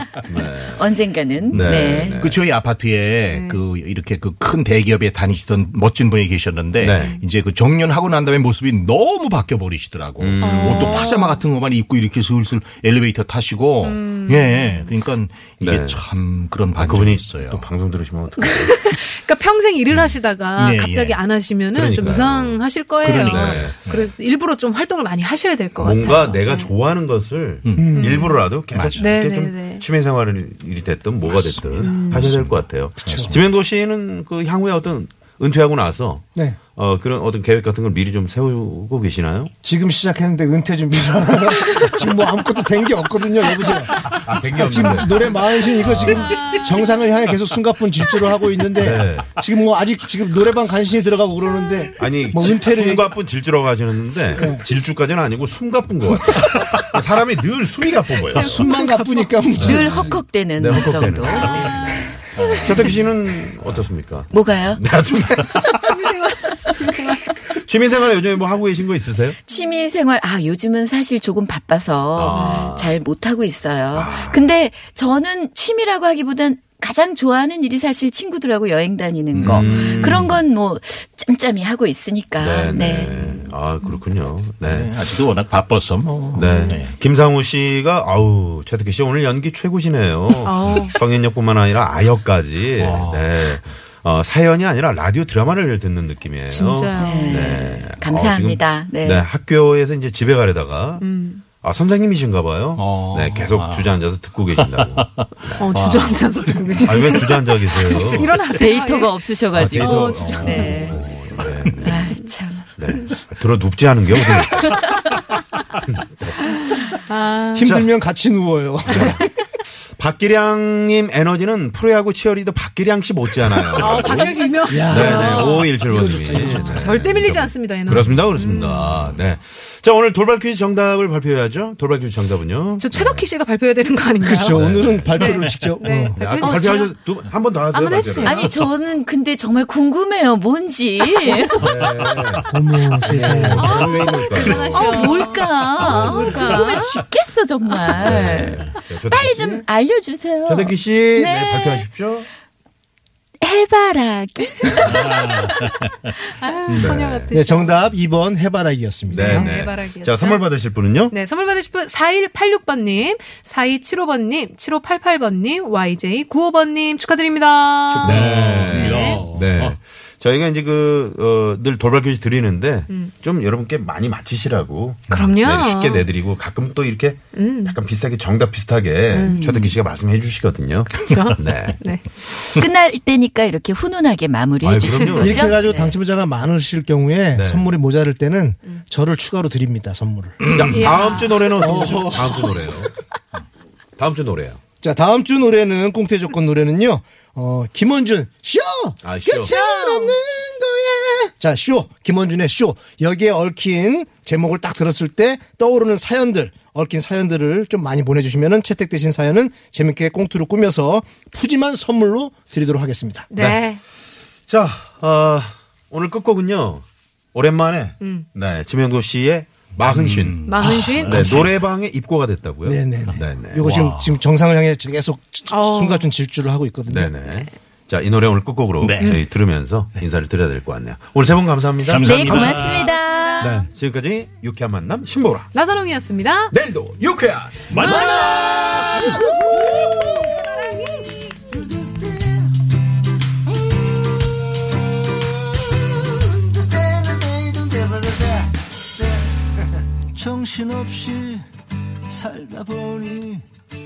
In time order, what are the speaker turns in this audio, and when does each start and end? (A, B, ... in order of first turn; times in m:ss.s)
0:00.2-0:00.8 A
0:00.8-0:02.2 B
0:01.5-0:02.4 A
0:01.6-0:17.7 C
0:06.8-0:07.2 A
0:10.2-0:11.1 A
0:10.4-0:11.4 D
0:13.8-0:14.9 D
0:15.6-0:16.0 A
0:16.8-0:19.0 A
0:18.4-0:26.7 D
0:20.6-0:21.2 C
0:21.7-0:23.8 A
0:23.0-0:24.0 C
0:25.8-0:39.5 A
0:27.6-0:28.0 C
0:27.8-0:28.3 E
0:27.9-0:28.4 D
0:28.7-0:29.1 C
0:29.0-0:29.9 D
0:31.3-0:33.4 C
0:31.8-0:32.3 D
0:33.0-0:33.3 E
0:39.6-0:53.2 E
0:43.9-0:46.4 A
0:48.8-0:49.3 A
0:52.0-0:58.7 A
0:54.3-0:54.6 E
0:58.4-0:59.4 D
0:58.4-1:00.2 E
0:59.6-1:00.0 A
0:59.6-1:02.0 B
1:00.6-1:06.0 A
1:02.4-1:02.9 C
1:04.3-1:04.8 B
1:05.6-1:07.4 D
1:07.4-1:09.4 A
1:09.5-1:23.5 B
1:12.2-1:13.0 A
1:13.9-1:14.5 A
1:19.3-1:20.3 C
1:19.4-1:20.4 A
1:22.4-1:25.0 A
1:24.6-1:27.0 C
1:26.3-1:46.0 A
1:30.4-1:31.0 D
1:32.8-1:33.5 C
1:36.5-1:37.5 D
1:37.0-1:39.2 B
1:41.0-1:41.4 D
1:42.8-1:44.0 C
1:44.6-1:46.8 C
1:45.6-1:51.0 D
1:46.8-1:48.4 A
1:48.5-1:51.1 B
1:49.5-1:52.1 A
1:51.8-1:52.7 B
1:52.8-1:54.9 A
1:55.9-1:56.5 A
1:57.1-1:57.6 D
1:57.5-1:59.2 E
1:57.6-1:57.9 A
1:58.9-1:59.2 A
2:00.0-2:13.3 A
2:03.8-2:05.7 D
2:04.7-2:07.0 E
2:06.4-2:09.1 D
2:12.8-2:14.6 D
2:14.2-2:16.5 E
2:14.4-2:15.4 A
2:15.2-2:16.9 D
2:16.2-2:18.5 A
2:17.7-2:18.5 D
2:18.2-2:21.6 B
2:21.5-2:22.5 A
2:22.5-2:23.8 E
2:23.0-2:25.0 A
2:23.5-2:31.9 B
2:23.9-2:24.7 C
2:24.4-2:27.0 D
2:25.8-2:26.7 A
2:28.0-2:29.6 A
2:30.5-2:32.3 A
2:33.4-2:35.5 B
2:34.8-2:35.7 C
2:36.4-2:37.9 D
2:36.7-2:37.3 A
2:37.3-2:39.6 E
2:39.1-2:41.2 A
2:39.2-2:40.5 D
2:41.1-2:48.1 D
2:47.9-2:49.8 C
2:48.0-3:01.8 A
2:48.7-2:49.2 D
2:52.9-2:53.1 D
2:55.1-2:56.1 D
2:57.3-2:57.8 D
2:59.1-2:59.4 D
2:59.2-2:59.8 B
3:00.9-3:02.0 D
3:02.5-3:06.0 B
3:04.6-3:05.5 A
3:05.2-3:10.5 E
3:07.4-3:07.7 A
3:10.4-3:11.2 C
3:10.5-3:12.9 A
3:10.7-3:11.4 D
3:11.1-3:12.9 E
3:14.0-3:14.6 A
3:14.8-3:33.3 E
3:19.0-3:19.5 A
3:19.5-3:20.2 D
3:33.3-3:33.8 D
3:33.4-3:33.6 A
3:34.5-3:43.7 A
3:38.0-3:38.3 D
3:39.8-3:41.6 C
3:40.4-3:41.4 D
3:42.6-3:47.2 E
3:43.6-3:44.2 C
3:45.5-3:46.1 D
3:46.9-3:52.5 A
3:48.8-3:49.2 C
3:51.9-3:52.8 C
3:52.0-3:53.6 B
3:52.5-3:53.4 D
3:53.4-3:55.5 A
3:55.5-3:56.5 D
3:56.5-3:58.0 A
3:57.7-3:58.4 C
3:57.8-3:59.1 B
3:59.0-4:00.4 E
4:01.5-4:02.4 E
4:06.0-4:11.4 E
4:12.1-4:13.4 E